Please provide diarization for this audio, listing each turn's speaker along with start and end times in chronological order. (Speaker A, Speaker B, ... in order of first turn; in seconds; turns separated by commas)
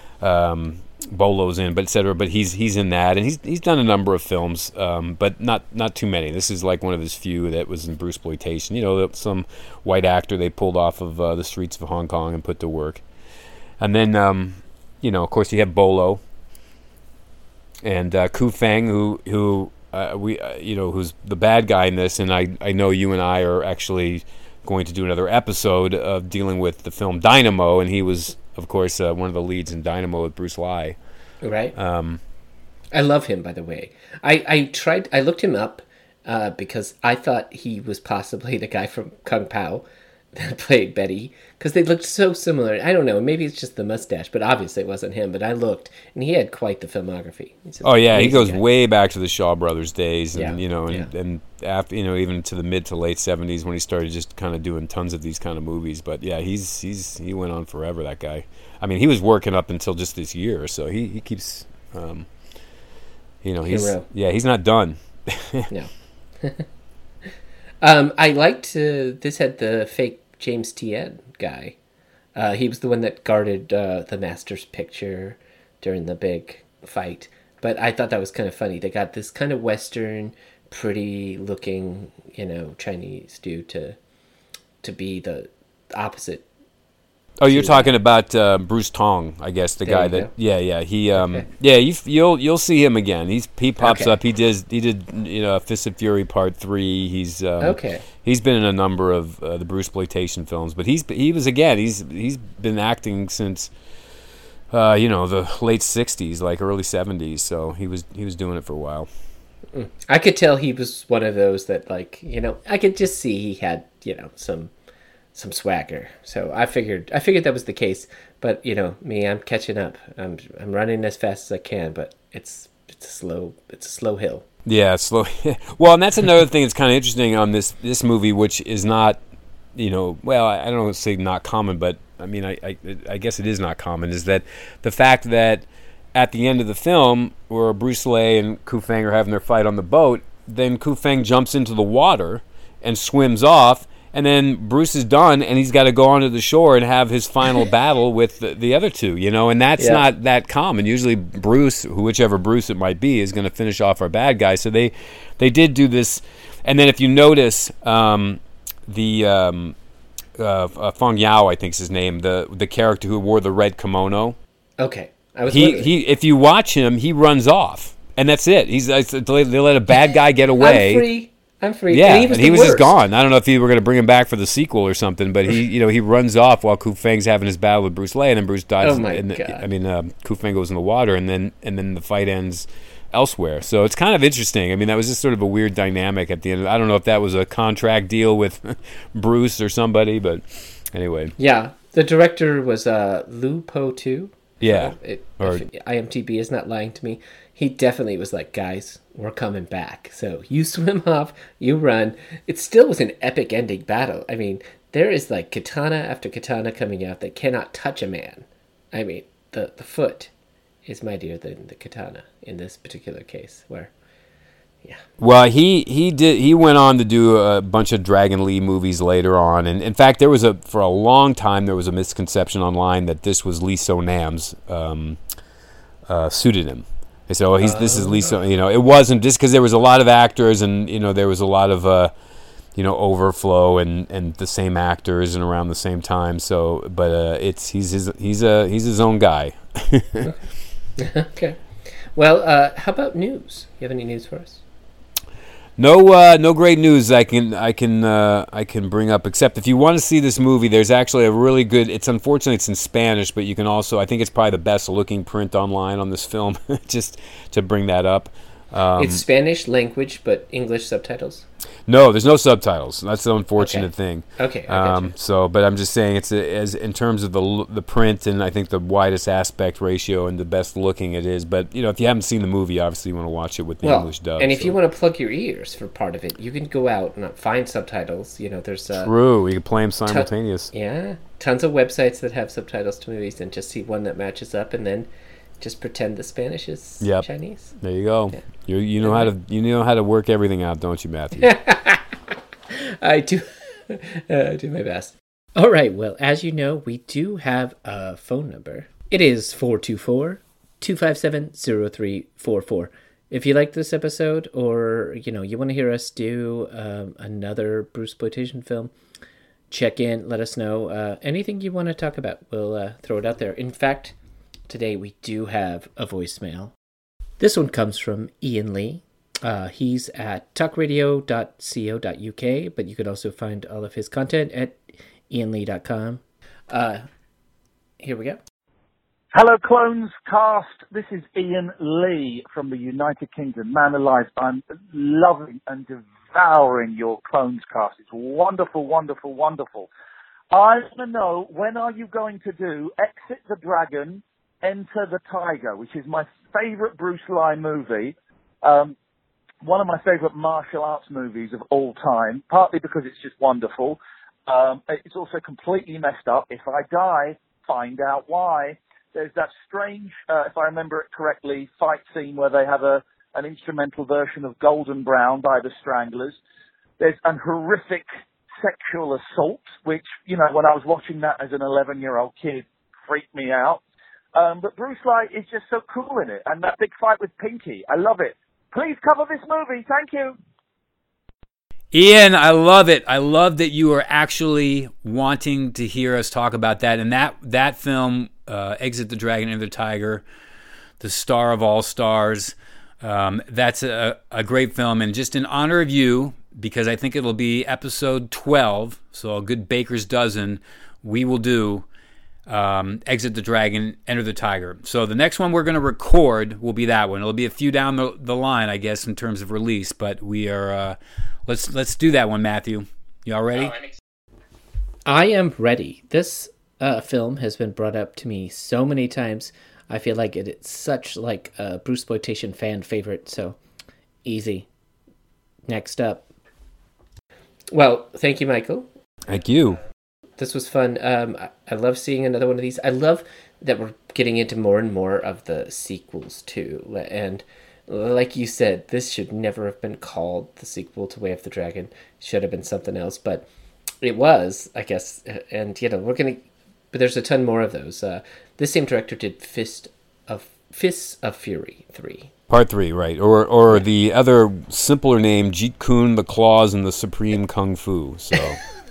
Speaker A: 0.2-13.0, Speaker A: 13.8-16.2, Speaker A: 17.8-31.0, Speaker B: 31.4-31.8, Speaker A: 31.8-32.2, Speaker B: 32.9-48.6, Speaker A: 47.8-62.3, Speaker B: 50.3-51.1, Speaker A: 63.4-65.7, Speaker B: 63.7-64.0, Speaker B: 65.7-66.7, Speaker B: 67.8-71.8, Speaker B: 72.3-84.0, Speaker B: 84.8-86.5, Speaker A: 87.4-103.7, Speaker B: 87.5-87.9, Speaker B: 89.8-90.3, Speaker B: 91.2-91.5, Speaker B: 93.8-94.2, Speaker B: 97.6-98.0, Speaker A: 104.7-109.1, Speaker B: 109.7-114.7, Speaker B: 115.3-124.5, Speaker A: 124.7-129.2, Speaker A: 129.8-159.8, Speaker B: 149.8-150.0, Speaker A: 160.4-164.4, Speaker B: 164.8-165.9, Speaker A: 165.5-171.1, Speaker B: 170.6-172.9, Speaker A: 171.9-191.3, Speaker B: 178.8-179.6, Speaker B: 191.4-210.3, Speaker A: 194.6-195.6, Speaker B: 210.9-213.9, Speaker A: 215.2-225.2, Speaker A: 226.1-232.1, Speaker B: 227.6-228.4, Speaker A: 232.8-240.3, Speaker B: 241.0-241.6, Speaker B: 242.2-244.6, Speaker A: 245.8-259.2, Speaker B: 259.0-261.5, Speaker A: 261.9-274.8, Speaker B: 263.6-265.1, Speaker B: 273.8-279.1, Speaker A: 279.0-280.7, Speaker B: 280.1-285.1, Speaker B: 285.6-287.8, Speaker A: 287.0-287.3, Speaker A: 287.8-291.5, Speaker B: 289.0-289.3, Speaker B: 291.4-308.9, Speaker B: 309.7-314.1, Speaker B: 314.7-316.7, Speaker B: 317.4-327.1, Speaker B: 328.0-328.4, Speaker C: 329.3-339.9, Speaker C: 340.5-349.0, Speaker C: 349.6-366.4, Speaker C: 367.0-368.1, Speaker C: 368.6-373.8, Speaker C: 374.3-380.4, Speaker A: 381.9-390.2, Speaker A: 391.0-401.9, Speaker A: 402.5-413.8, Speaker B: 415.1-423.6, Speaker B: 424.2-424.7, Speaker B: 425.7-426.3, Speaker B: 427.7-428.9, Speaker A: 429.3-429.8, Speaker B: 430.4-443.5, Speaker B: 444.0-452.3, Speaker A: 452.5-458.6